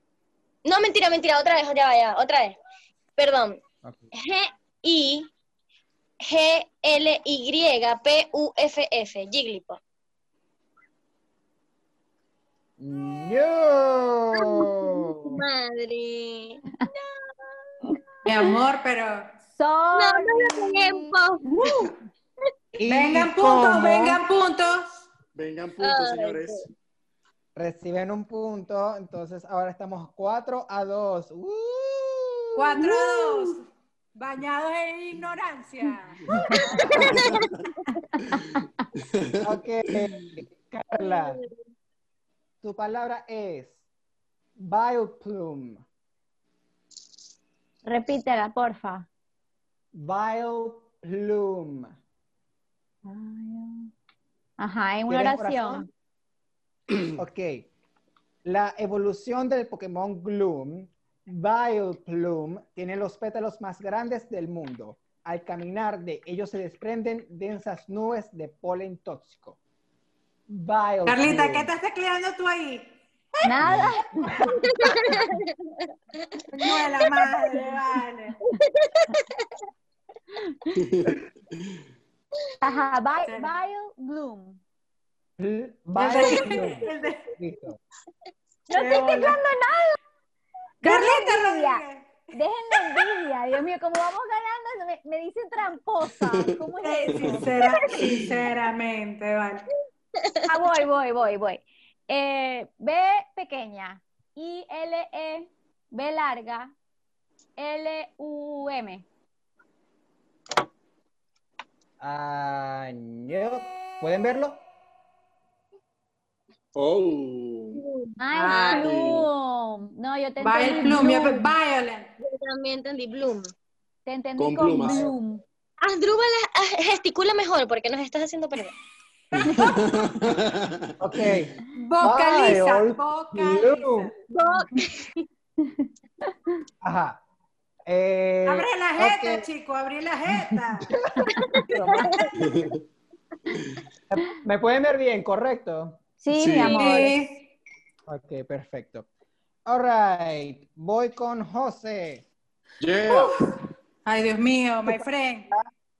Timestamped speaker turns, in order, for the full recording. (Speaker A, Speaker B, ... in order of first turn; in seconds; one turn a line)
Speaker A: 0.6-2.6
Speaker A: 3.2-3.6
Speaker B: 3.8-4.1
Speaker A: 4.1-5.3
Speaker A: 6.2-9.8
Speaker B: 12.8-15.4
Speaker A: 14.3-17.1
Speaker C: 18.2-19.3
Speaker D: 19.5-21.9
Speaker A: 19.9-21.9
Speaker B: 22.7-24.2
Speaker C: 22.9-25.0
Speaker E: 25.3-26.7
Speaker A: 25.8-26.6
Speaker B: 27.5-33.1
Speaker C: 32.5-33.6
Speaker C: 34.1-36.3
Speaker D: 36.3-36.8
Speaker A: 36.5-37.9
Speaker B: 36.7-37.2
Speaker E: 37.1-37.4
Speaker E: 38.4-39.5
Speaker B: 39.4-41.4
Speaker A: 41.0-41.5
Speaker B: 42.6-43.8
Speaker B: 44.6-45.8
Speaker D: 47.8-49.1
Speaker B: 49.9-52.0
Speaker D: 53.0-53.9
Speaker D: 54.6-55.9
Speaker B: 55.1-55.9
Speaker B: 57.1-57.7
Speaker B: 58.4-69.6
Speaker B: 70.5-71.7
Speaker C: 71.0-73.0
Speaker D: 73.4-74.7
Speaker A: 74.5-75.5
Speaker C: 76.5-78.4
Speaker A: 76.7-77.2
Speaker A: 78.5-79.5
Speaker E: 80.7-81.8
Speaker D: 82.6-84.6
Speaker C: 83.2-83.5
Speaker B: 85.4-87.8
Speaker C: 86.0-87.2
Speaker D: 88.7-90.0
Speaker C: 88.7-89.4
Speaker D: 90.8-97.4
Speaker C: 90.8-92.1
Speaker E: 96.3-96.5
Speaker C: 96.8-99.7
Speaker E: 97.1-97.4
Speaker A: 100.2-100.6
Speaker D: 100.5-106.7
Speaker D: 107.6-109.0
Speaker B: 112.0-114.6
Speaker E: 116.7-117.8
Speaker A: 117.8-118.8
Speaker D: 118.2-121.5
Speaker C: 118.3-118.8
Speaker E: 118.8-119.3
Speaker C: 120.4-122.1
Speaker A: 122.2-123.5
Speaker D: 124.0-125.4
Speaker E: 124.4-125.1
Speaker A: 125.8-128.7
Speaker C: 129.3-129.7
Speaker E: 129.3-131.2
Speaker D: 129.5-129.7
Speaker B: 131.0-134.1
Speaker C: 131.7-134.1
Speaker A: 134.3-135.2
Speaker B: 136.8-137.2
Speaker B: 137.9-139.5
Speaker C: 138.4-141.0
Speaker B: 140.4-142.2
Speaker A: 142.0-142.3
Speaker E: 142.4-142.8
Speaker B: 144.1-146.0
Speaker D: 146.2-147.2
Speaker E: 146.3-146.9
Speaker C: 146.7-147.4
Speaker B: 148.1-149.1
Speaker B: 149.7-152.3
Speaker E: 152.8-153.4
Speaker C: 154.0-155.5
Speaker B: 154.8-155.7